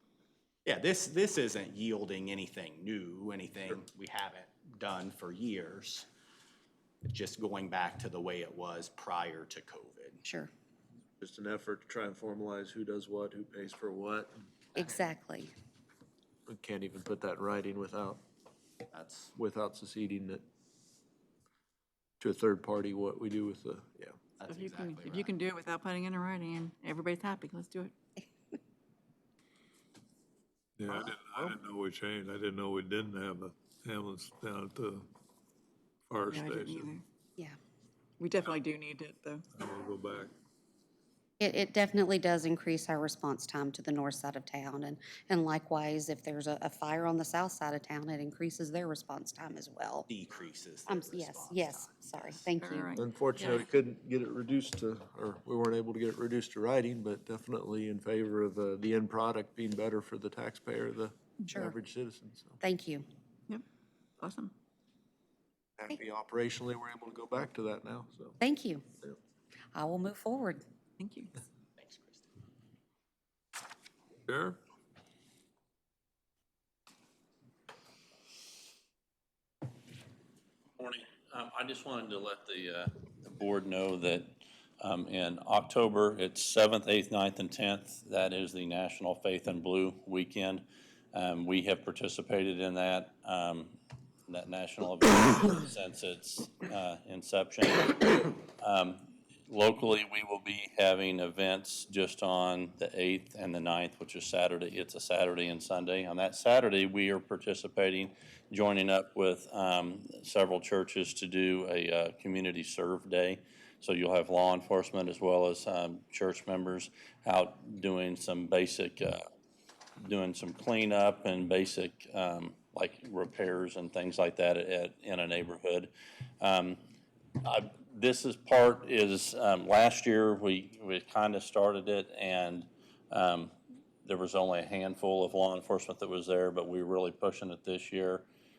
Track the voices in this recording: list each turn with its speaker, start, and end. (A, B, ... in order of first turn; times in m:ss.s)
0:00.6-0:06.0 A
0:07.0-0:10.2 A
0:11.2-0:14.3 B
0:14.7-0:15.5 C
0:16.5-0:18.2 B
0:18.9-0:19.3 A
0:19.4-0:20.4 B
0:22.2-0:24.2 B
0:24.4-0:25.3 A
0:24.4-0:27.9 D
0:30.8-0:35.0 E
0:36.1-0:36.9 E
0:36.3-0:37.0 D
0:38.2-0:39.4 D
0:39.5-0:40.3 E
0:41.4-0:50.1 C
0:50.1-0:52.5 A
0:50.9-0:53.0 C
0:52.6-0:53.6 D
0:52.9-1:02.6 B
1:02.6-1:03.0 C
1:04.2-1:04.5 D
1:05.8-1:08.4 B
1:08.4-1:08.8 C
1:09.7-1:10.6 C
1:11.0-1:11.3 D
1:11.8-1:12.3 A
1:14.3-1:14.6 E
1:20.8-1:33.7 F
1:34.3-1:59.2 F
2:00.0-2:06.8 F
2:07.4-2:13.5 F
2:14.0-2:18.2 F